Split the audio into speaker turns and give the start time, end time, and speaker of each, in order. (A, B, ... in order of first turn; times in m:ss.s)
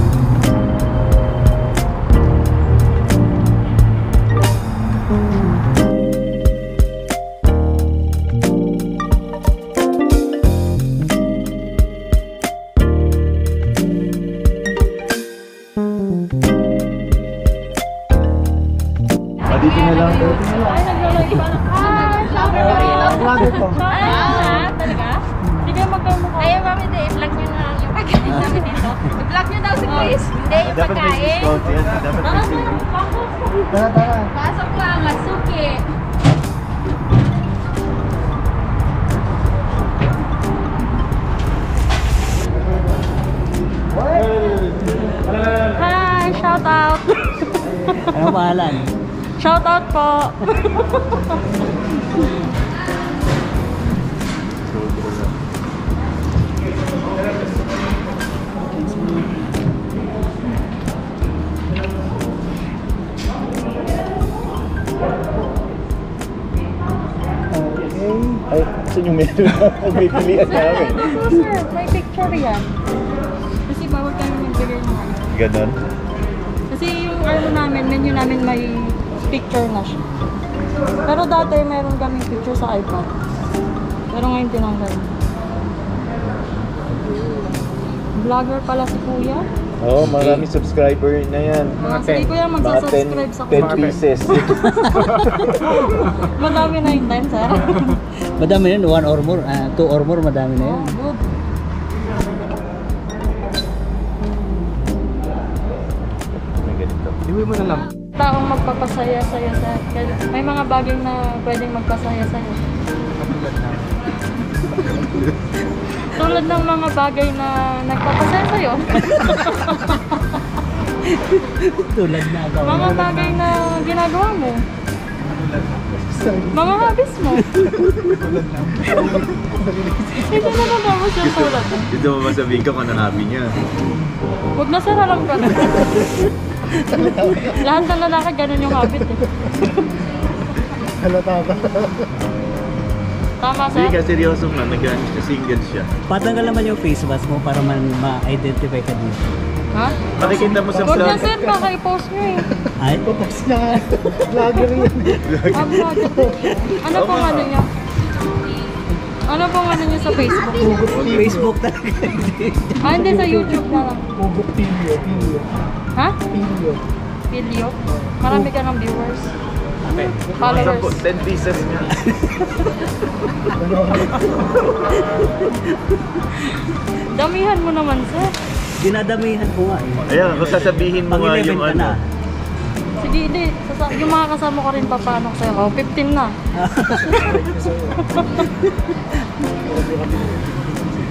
0:19.5-0:20.5 A
0:19.5-0:20.6 B
0:20.2-0:20.8 C
0:20.6-0:26.7 D
0:21.2-0:23.2 B
0:22.6-0:24.6 C
0:23.9-0:24.9 B
0:26.4-0:31.8 B
0:28.4-0:29.0 D
0:29.8-0:30.2 D
0:30.6-0:32.8 A
0:32.2-0:33.2 D
0:33.7-0:34.3 C
0:34.4-0:35.8 B
0:45.7-0:48.0 D
0:48.1-0:48.9 E
0:49.4-0:51.3 D
0:54.6-0:55.3 A
1:07.7-1:11.1 A
1:10.4-1:12.7 D
1:13.7-1:15.2 D
1:15.3-1:15.8 A
1:16.7-1:20.0 D
1:21.0-1:23.1 D
1:24.1-1:25.1 D
1:28.2-1:29.5 D
1:29.8-1:31.9 A
1:30.0-1:30.5 E
1:31.8-1:35.3 D
1:32.6-1:34.7 A
1:34.6-1:35.0 E
1:36.0-1:38.0 D
1:38.4-1:40.9 E
1:40.6-1:41.2 D
1:46.6-1:47.7 A
1:48.1-1:52.6 D
1:56.0-2:00.0 D
1:59.1-1:59.4 E
2:01.1-2:03.3 E
2:02.6-2:04.6 D
2:02.8-2:03.2 C
2:05.9-2:07.0 C
2:06.5-2:07.5 D
2:07.9-2:10.9 C
2:10.3-2:11.9 D
2:11.2-2:13.6 A
2:14.5-2:15.9 D
2:16.9-2:17.7 C
2:17.4-2:19.3 D
2:21.0-2:22.1 C
2:23.4-2:24.0 D
2:23.7-2:25.9 A
2:26.1-2:29.2 E
2:29.7-2:32.5 D
2:30.2-2:31.2 A
2:30.2-2:31.7 C
2:32.5-2:36.6 C
2:32.8-2:33.1 E
2:35.2-2:35.7 A
2:35.5-2:37.7 D
2:36.9-2:37.6 A
2:39.3-2:40.9 D
2:40.5-2:41.5 C
2:40.9-2:41.2 A
2:41.1-2:42.8 E
2:42.8-2:44.0 D
2:42.9-2:45.5 C
2:46.3-2:46.8 C
2:47.3-2:49.3 D
2:47.9-2:48.5 C
2:50.4-2:51.0 D
2:50.4-2:52.0 A
2:52.2-2:52.5 E
2:53.5-2:54.2 C
2:54.8-2:55.8 E
2:57.0-2:58.3 D
2:58.8-3:02.0 E
3:00.0-3:02.0 A
3:03.0-3:06.4 D
3:06.6-3:07.3 E
3:07.2-3:08.0 C
3:08.2-3:08.4 D
3:09.6-3:10.8 C